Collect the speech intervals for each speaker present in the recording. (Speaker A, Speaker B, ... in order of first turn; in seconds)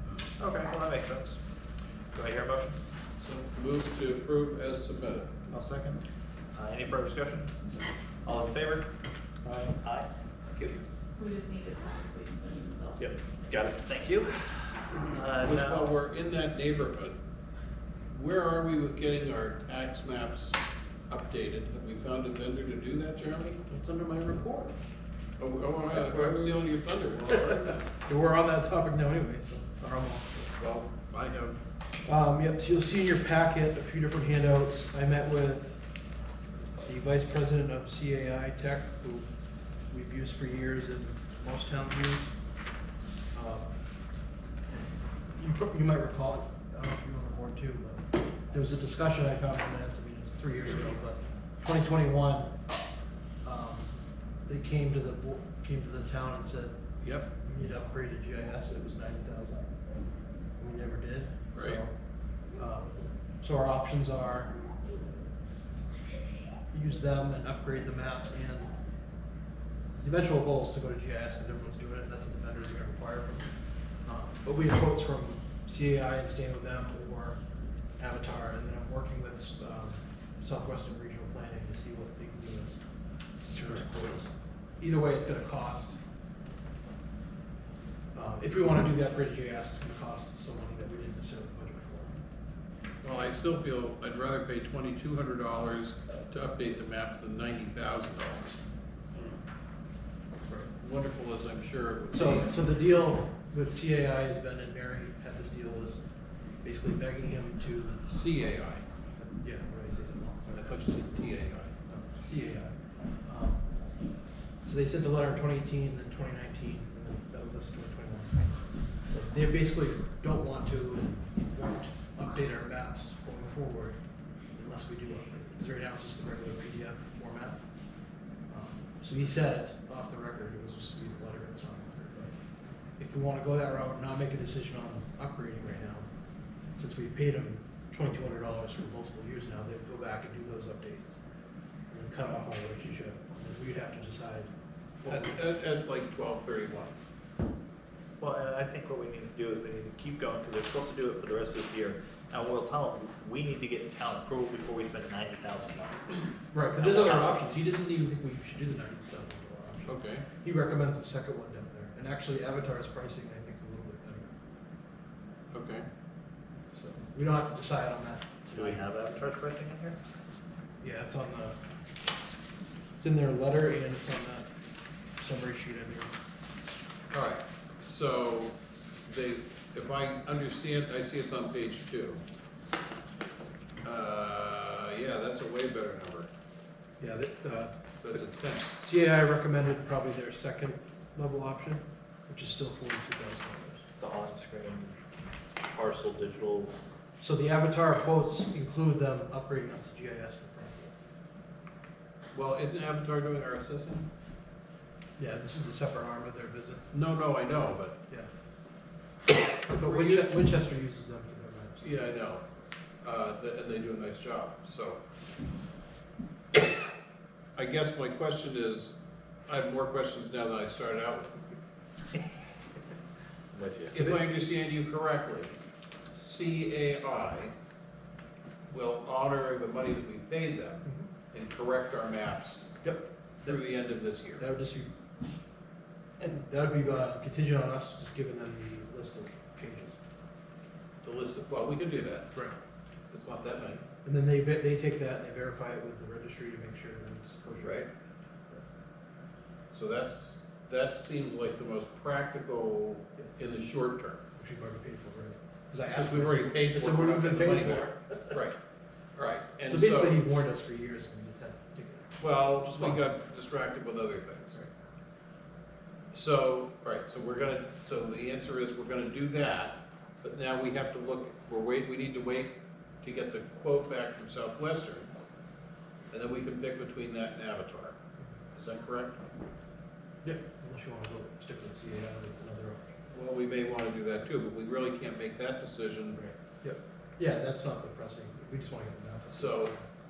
Speaker A: 0.4-1.4, 2.1-2.8, 5.5-6.0, 6.5-7.5, 8.2-8.9, 9.4-10.8, 13.0-15.9, 148.2-156.2, 156.8-157.4, 168.5-170.0, 194.0-195.0, 195.6-196.7, 223.5-224.0
Speaker B: 3.2-5.3, 15.4-17.2, 18.1-20.6, 21.1-23.6, 25.4-27.8, 30.6-31.6, 57.0-57.3, 61.5-61.8, 83.5-84.0, 93.0-98.6, 99.1-99.4, 100.6-102.6, 108.1-108.9, 110.5-111.8, 145.0-146.9, 159.9-160.2, 165.5-165.9, 177.1-182.2, 183.8-186.3, 188.0-188.8, 202.3-204.1, 206.9-208.0, 209.7-210.3, 211.8-212.4, 213.0-215.0, 217.6-218.9, 219.5-221.4, 223.9-225.6, 226.1-227.5, 228.7-232.7, 233.4-234.4, 241.0-242.3, 243.1-243.8, 247.6-247.9, 249.7-254.2, 255.8-258.6, 259.2-260.2, 262.2-264.6, 266.1-275.1, 276.1-278.0, 278.6-279.2, 283.1-286.2, 289.3-289.8
Speaker C: 11.2-13.2
Speaker D: 23.7-24.8, 25.9-26.6, 27.3-30.5, 32.0-35.8, 36.8-39.3, 39.9-42.3, 43.3-43.8, 45.4-52.5, 53.4-56.8, 57.4-59.7, 60.6-61.9, 62.6-64.6, 66.7-68.7, 70.0-73.5, 74.0-77.4, 78.0-82.8, 83.5-86.0, 88.1-92.2, 102.1-106.0, 106.6-108.1, 109.2-110.8, 111.9-113.7, 114.6-124.0, 124.5-127.6, 128.5-132.3, 133.0-136.1, 136.8-141.2, 141.9-144.5, 145.0-145.4, 156.5-164.3, 166.7-168.9, 170.8-171.6, 173.0-174.5, 175.2-176.1, 187.0-188.2, 188.7-193.9, 197.2-201.0, 205.2-206.9, 209.7-211.9, 232.8-233.7, 234.4-234.9, 236.2-240.0, 244.0-247.9, 254.4-258.4, 259.7-263.0, 280.2-282.9, 286.1-289.8